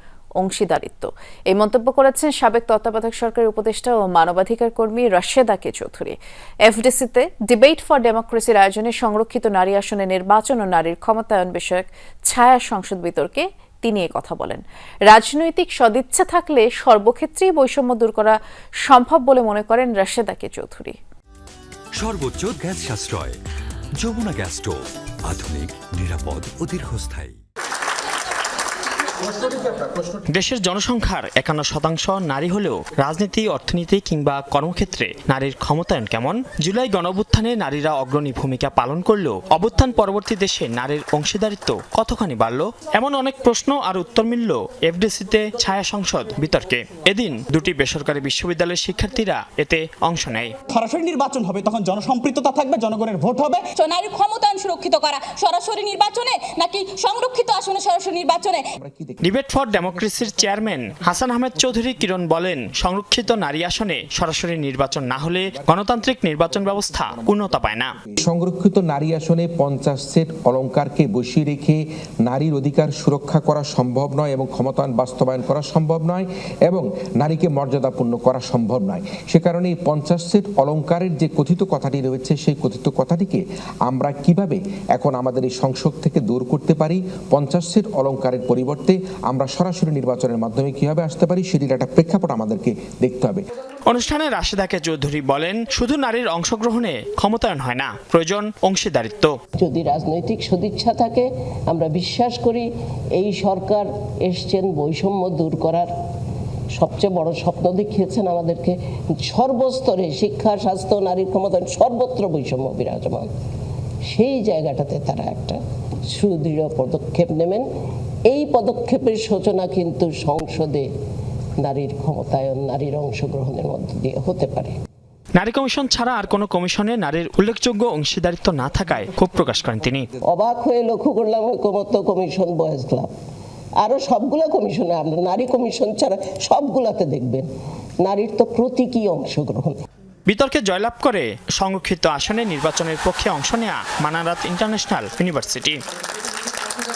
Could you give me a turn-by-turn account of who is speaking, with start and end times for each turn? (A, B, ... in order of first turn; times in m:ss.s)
0:00.4-0:21.0 A
0:22.0-0:23.4 B
0:24.0-0:27.4 B
0:29.3-0:30.2 C
0:30.3-0:50.5 D
0:50.7-0:53.7 E
0:53.7-0:58.6 F
0:58.8-1:01.0 C
0:59.2-1:07.9 D
1:05.6-1:33.4 C
1:33.9-1:39.3 D
1:39.6-1:45.9 G
1:46.8-1:53.3 G
1:54.1-1:55.6 G
1:56.1-1:57.7 G
1:58.3-2:00.9 G
2:01.6-2:04.7 G
2:05.4-2:10.1 D
2:10.3-2:13.1 G
2:13.8-2:17.5 G
2:18.0-2:19.8 G
2:20.3-2:25.8 D